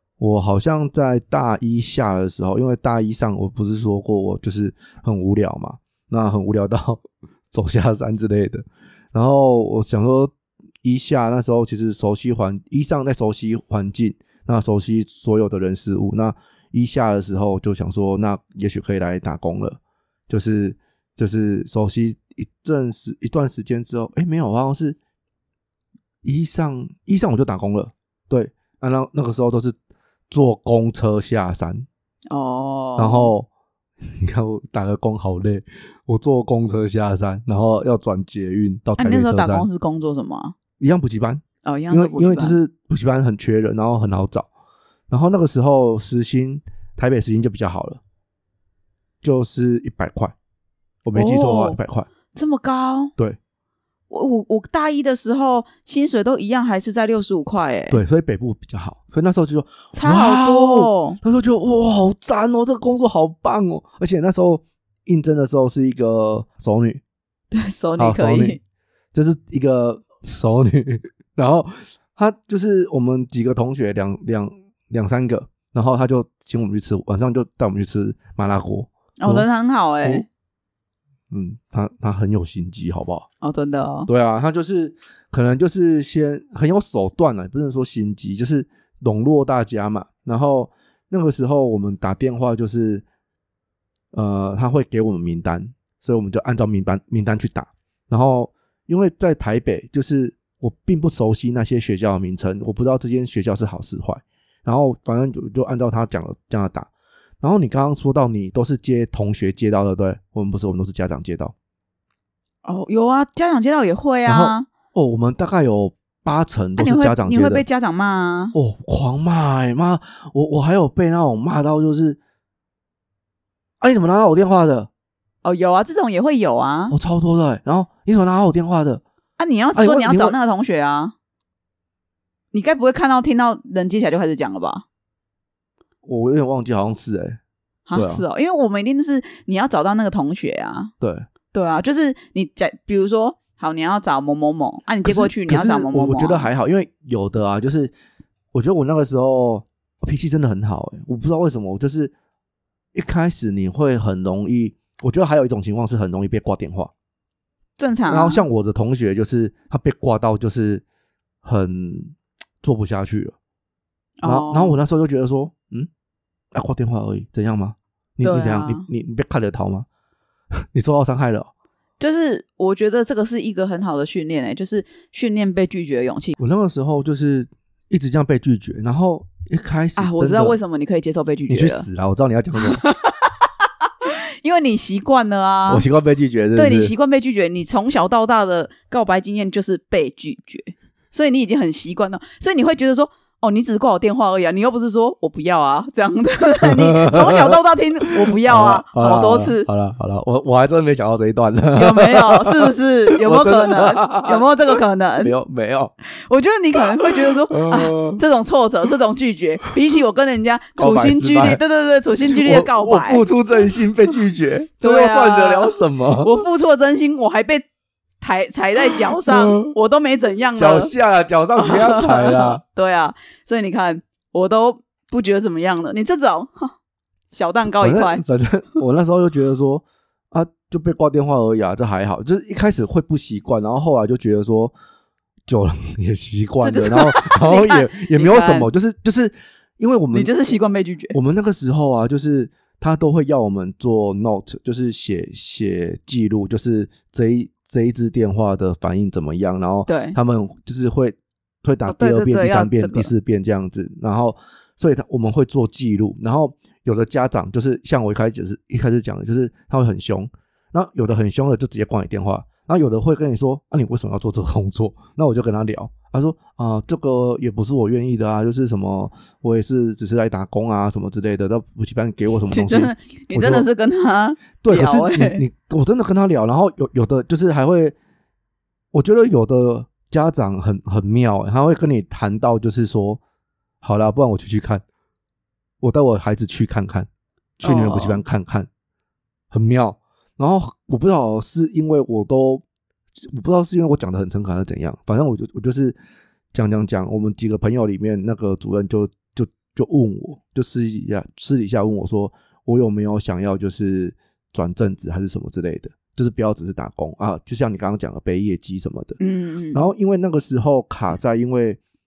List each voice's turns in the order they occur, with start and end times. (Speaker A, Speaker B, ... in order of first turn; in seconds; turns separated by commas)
Speaker A: 0.2-25.0, Speaker A: 26.2-29.8, Speaker A: 30.3-31.9, Speaker B: 32.3-33.3, Speaker A: 33.0-33.5, Speaker A: 34.0-39.7, Speaker B: 39.0-40.5, Speaker A: 40.8-44.5, Speaker B: 41.6-42.6, Speaker A: 45.1-48.0, Speaker A: 49.2-50.3, Speaker A: 51.0-52.1, Speaker B: 51.1-51.8, Speaker B: 52.3-53.1, Speaker B: 54.1-58.0, Speaker A: 57.9-67.0, Speaker B: 59.9-61.2, Speaker B: 67.5-68.6, Speaker A: 68.0-68.6, Speaker A: 69.1-79.5, Speaker B: 79.2-80.2, Speaker A: 81.3-83.3, Speaker B: 83.4-84.1, Speaker A: 84.1-93.0, Speaker A: 94.1-106.9, Speaker A: 107.4-111.5, Speaker B: 112.6-114.7, Speaker A: 114.2-117.6, Speaker B: 116.8-118.5, Speaker A: 118.5-122.2, Speaker A: 123.8-124.9, Speaker B: 125.4-126.9, Speaker A: 126.9-129.0, Speaker B: 129.4-131.1, Speaker A: 129.7-130.3, Speaker B: 132.5-134.8, Speaker A: 136.0-137.4, Speaker B: 137.9-140.9, Speaker A: 137.9-138.2, Speaker A: 141.0-141.3, Speaker B: 141.5-146.5, Speaker A: 145.0-147.9, Speaker A: 148.5-152.1, Speaker A: 152.9-156.9, Speaker B: 157.8-158.4, Speaker A: 158.1-160.8, Speaker A: 161.4-163.3, Speaker B: 164.2-164.8, Speaker A: 164.2-165.9, Speaker A: 166.5-169.8, Speaker B: 168.2-168.8, Speaker A: 170.7-171.5, Speaker B: 172.0-176.4, Speaker A: 176.4-180.6, Speaker B: 179.9-181.9, Speaker A: 181.5-182.8, Speaker B: 182.6-185.8, Speaker A: 185.7-186.9, Speaker B: 186.6-199.7, Speaker A: 196.6-205.9, Speaker B: 201.8-205.3, Speaker B: 206.1-213.2, Speaker A: 207.0-208.2, Speaker A: 210.8-211.6, Speaker A: 212.2-216.3, Speaker B: 214.8-217.6, Speaker B: 218.2-220.9, Speaker A: 219.2-219.7, Speaker A: 220.6-222.6, Speaker B: 221.6-226.7, Speaker B: 227.3-228.2, Speaker A: 227.8-234.7, Speaker A: 235.5-240.3, Speaker B: 236.6-238.7, Speaker B: 240.1-241.2, Speaker A: 241.1-273.7, Speaker B: 249.9-250.2, Speaker B: 251.9-253.1, Speaker B: 272.5-275.4, Speaker A: 274.6-277.9, Speaker A: 278.9-283.2, Speaker A: 283.8-284.8, Speaker A: 285.8-288.7, Speaker B: 287.6-288.2, Speaker A: 289.5-292.6, Speaker A: 293.3-296.0, Speaker A: 296.5-309.2, Speaker B: 309.2-309.8, Speaker A: 309.7-311.8